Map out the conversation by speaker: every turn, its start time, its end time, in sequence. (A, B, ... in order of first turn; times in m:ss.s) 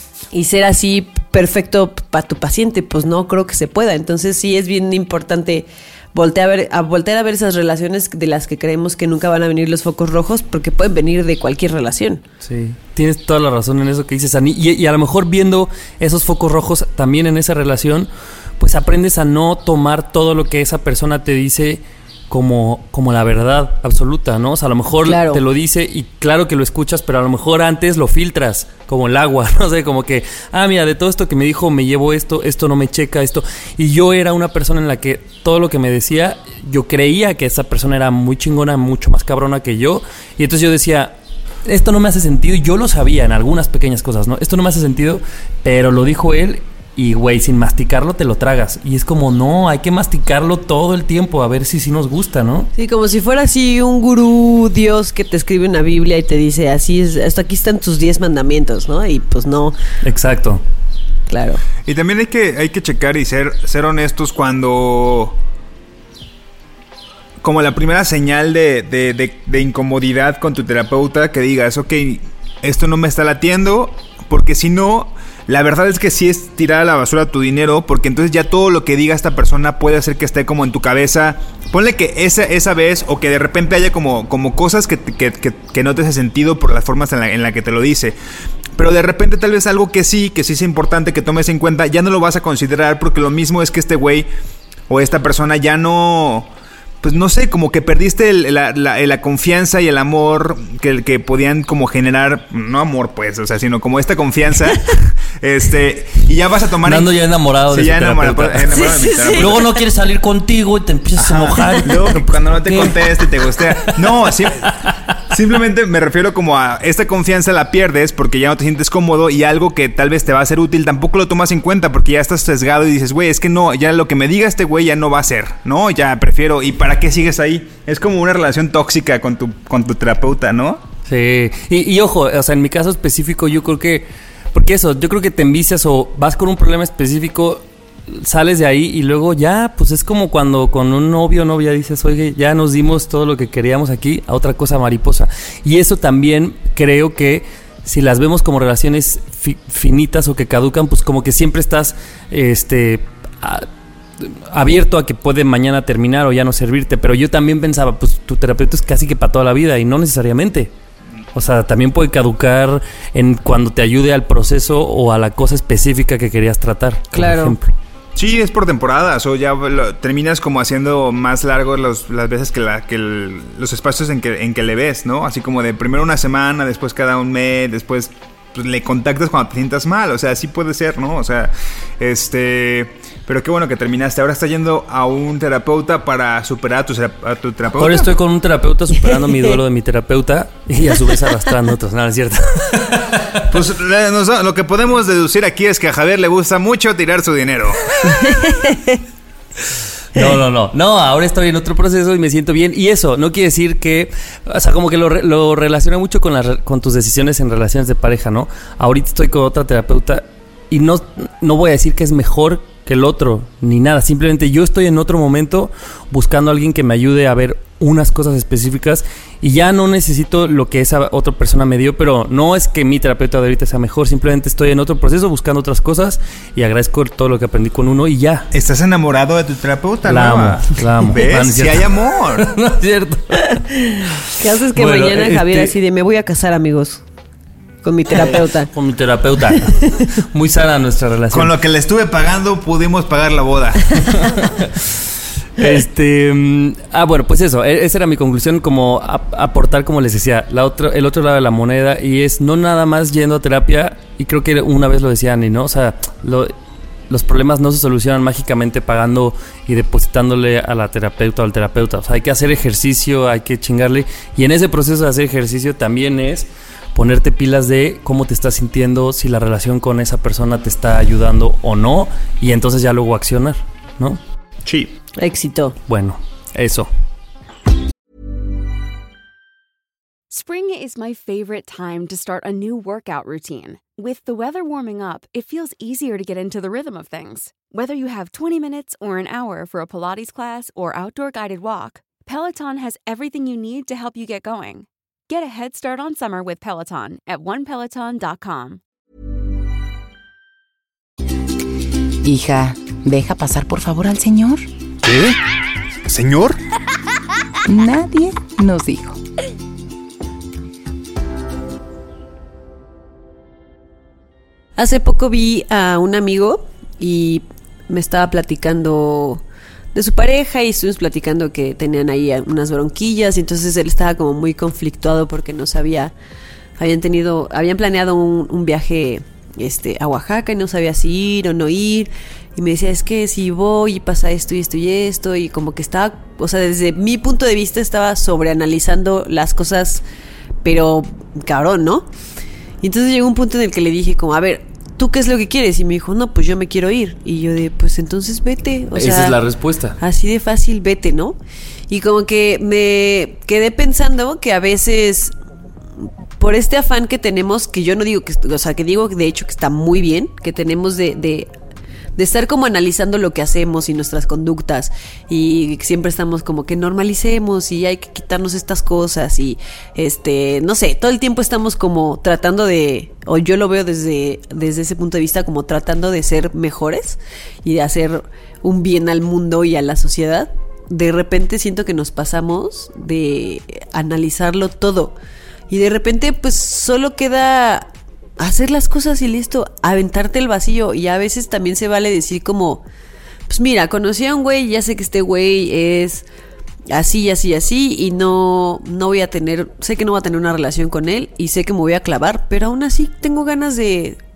0:00.3-0:12.2 A
0:12.4-0:52.7 B
0:25.0-0:25.4 A
0:52.8-0:59.8 A
1:00.0-1:00.6 B
1:01.3-1:01.6 A
1:01.8-1:05.4 C
1:07.4-1:28.2 C
1:28.8-1:34.3 C
1:34.9-1:36.5 C
1:37.0-1:47.1 C
1:46.8-1:55.0 B
1:47.7-1:49.7 C
1:48.7-1:49.6 A
1:51.2-1:54.7 C
1:55.3-2:10.8 C
2:11.1-2:33.7 B
2:34.2-2:40.7 B
2:41.4-2:47.7 B
2:47.1-2:47.6 A
2:48.2-3:08.1 C
3:07.8-3:13.4 B
3:13.5-3:18.0 C
3:18.0-3:19.0 A
3:20.1-3:48.5 B
3:48.5-3:52.5 C
3:50.0-3:54.2 B
3:53.5-3:57.0 A
3:54.7-3:55.7 B
3:57.8-3:58.7 A
3:58.1-4:01.6 B
3:59.7-4:00.0 A
4:01.3-4:04.6 C
4:05.6-4:16.5 B
4:17.1-4:34.2 B
4:34.7-4:35.0 C
4:35.2-4:35.8 A
4:35.9-4:36.9 B
4:40.3-4:58.8 D
5:02.2-5:04.7 E
5:05.0-5:05.4 C
5:06.0-5:06.6 C
5:07.7-5:09.2 E
5:14.8-5:19.4 A
5:19.9-5:26.1 A
5:26.8-5:40.0 A
5:40.6-5:42.1 A
5:42.8-5:49.4 A
5:49.0-5:50.0 B
5:50.0-5:51.4 A
5:51.9-5:55.3 A
5:56.4-6:01.5 A
6:02.2-6:25.1 A
6:25.7-6:32.8 A
6:33.5-6:36.3 A
6:36.9-6:44.2 A